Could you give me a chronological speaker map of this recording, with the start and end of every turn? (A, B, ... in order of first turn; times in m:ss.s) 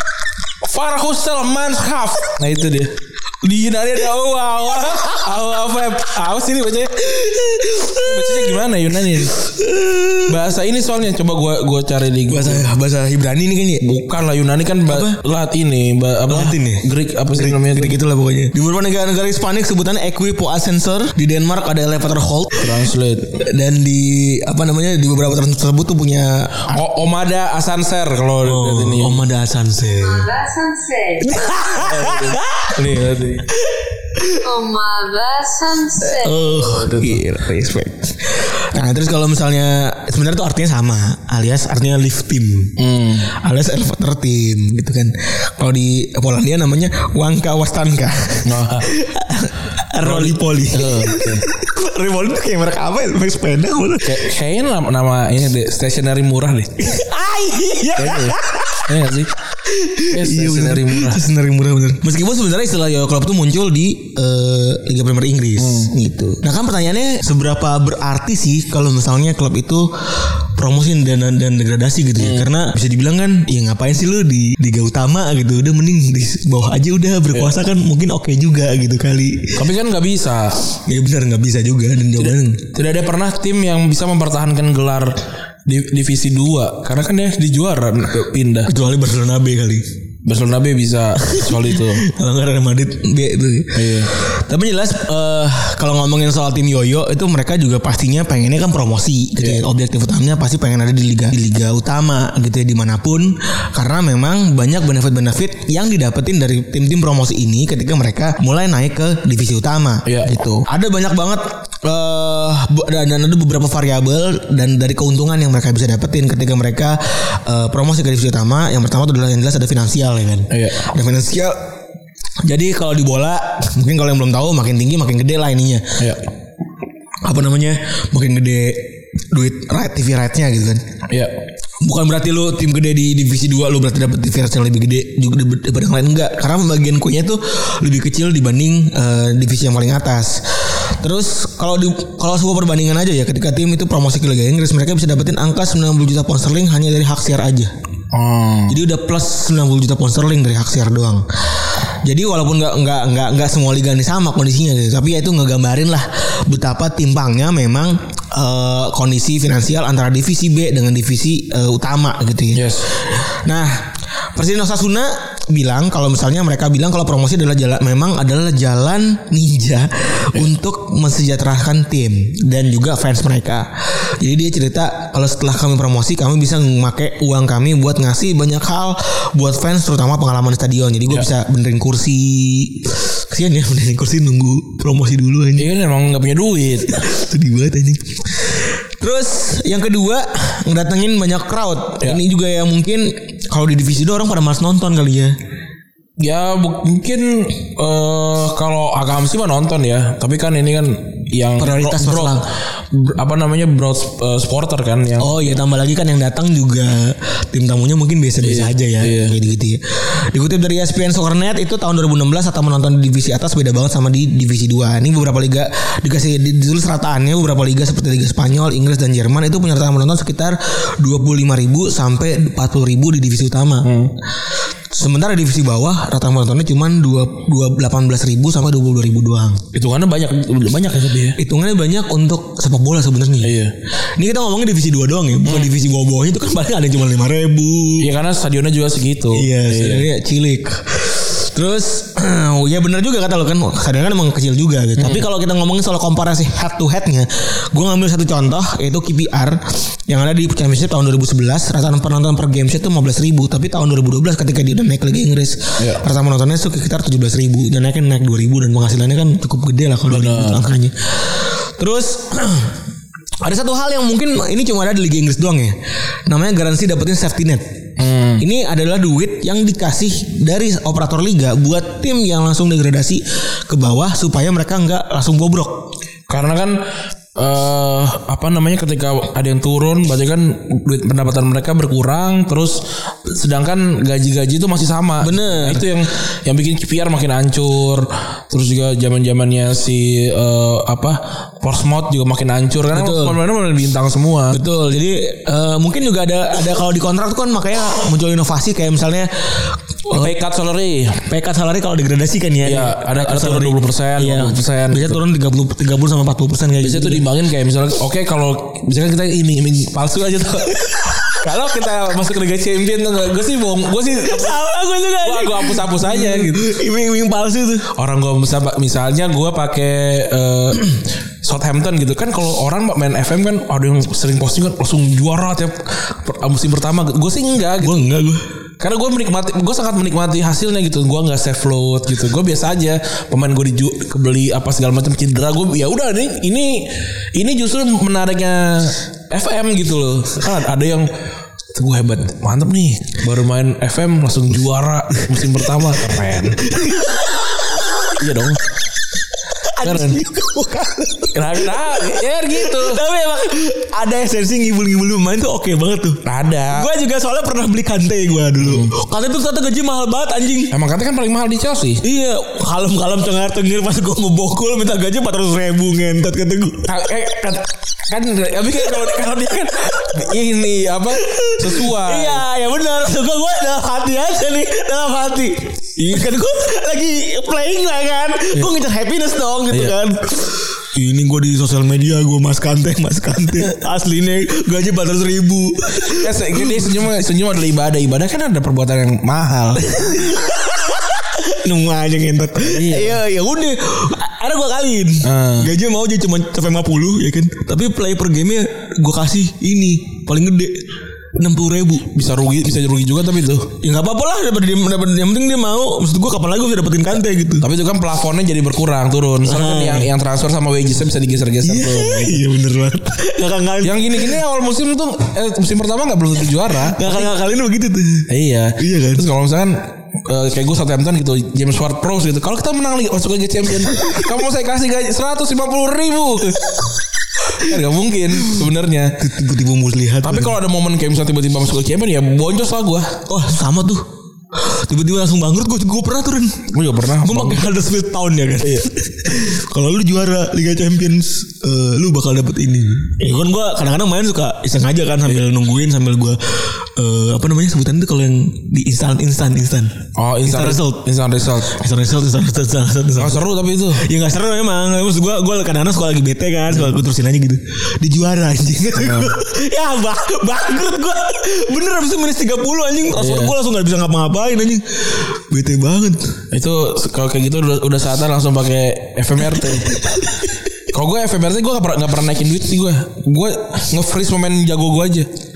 0:00.6-0:07.1 A
0:07.0-0:10.4 B
0:07.9-0:09.4 A
0:10.3-0:12.7 A
0:12.3-0:14.0 B
0:13.8-0:18.0 A
0:14.9-0:15.2 B
0:16.3-0:22.8 B
0:22.6-0:23.3 A
0:23.4-0:26.8 B
0:26.7-0:29.2 A
0:28.4-0:30.3 B
0:30.0-0:31.5 C
0:31.2-0:32.8 B
0:31.7-0:33.5 A
0:33.6-0:34.4 B
0:34.3-0:36.6 C
0:36.0-0:54.3 B
0:36.6-0:37.2 A
0:42.8-0:43.3 A
0:48.4-0:48.9 A
0:50.0-0:51.4 A
0:54.0-0:56.8 A
0:56.8-0:58.9 B
0:58.0-0:59.3 A
0:59.6-1:19.6 B
1:00.1-1:01.2 A
1:05.6-1:05.9 A
1:12.2-1:12.5 A
1:19.5-1:20.6 A
1:20.8-1:22.6 B
1:22.7-1:28.7 A
1:28.7-1:29.8 B
1:30.2-1:32.0 A
1:31.2-2:01.6 B
1:33.7-1:34.1 A
1:50.0-1:50.4 A
2:00.5-2:00.9 A
2:02.4-2:06.0 B
2:07.2-2:10.8 B
2:11.1-2:11.3 A
2:11.8-2:27.7 B
2:28.1-2:28.8 A
2:28.7-3:05.7 B
2:42.5-2:42.9 A
3:05.6-3:07.0 A
3:06.9-3:15.4 B
3:16.2-3:25.4 A
3:21.6-3:22.4 B
3:25.2-3:43.9 B
3:28.4-3:29.4 A
3:43.8-3:44.1 A
3:44.9-3:49.6 B
3:49.7-3:51.4 A
3:51.4-3:53.6 B
3:53.4-3:53.7 A
3:54.2-3:58.1 B
3:55.4-3:55.7 A
3:58.0-4:00.0 A
3:59.3-4:22.8 B
4:05.0-4:05.2 A
4:15.8-4:16.0 A
4:20.1-4:20.6 A
4:23.4-4:27.6 B
4:28.0-4:28.4 A
4:28.4-4:35.9 B
4:36.3-4:36.8 A
4:37.3-4:54.6 A
4:45.2-4:45.9 B
4:52.9-4:53.4 B
4:54.5-5:00.3 B
5:00.1-5:01.2 A
5:01.3-5:07.2 B
5:02.6-5:05.2 A
5:06.8-5:14.6 A
5:14.2-5:17.8 B
5:15.2-5:16.7 A
5:17.9-5:28.0 A
5:27.8-5:28.4 B
5:28.8-5:41.1 A
5:41.7-5:46.6 A
5:46.6-5:48.2 B
5:48.2-5:48.6 A
5:49.6-6:00.7 B
5:49.8-5:50.2 A
5:51.3-5:53.0 A
5:56.2-5:56.9 A
5:58.6-5:58.9 A
6:00.7-6:02.0 A
6:02.0-6:06.9 B
6:06.8-6:12.4 A
6:11.1-6:27.0 B
6:26.0-6:29.9 A
6:29.8-6:42.1 B
6:32.6-6:33.2 A
6:35.2-6:35.7 A
6:42.1-6:43.7 A
6:43.8-6:47.6 B
6:47.6-6:52.4 A
6:49.4-6:50.1 B
6:51.6-6:54.4 B
6:53.8-6:57.3 A
6:56.8-6:59.3 B
6:58.3-7:06.8 A
7:07.4-7:09.2 A
7:08.4-7:08.6 B
7:09.2-7:10.6 B
7:10.2-7:13.2 A
7:13.3-7:16.7 B
7:16.7-7:17.7 A
7:17.2-7:46.4 B
7:30.2-7:31.8 A
7:33.2-7:34.0 A
7:39.0-7:39.3 A
7:43.2-7:43.5 A
7:46.5-7:50.1 A
7:49.7-7:50.2 B
7:50.9-7:55.3 A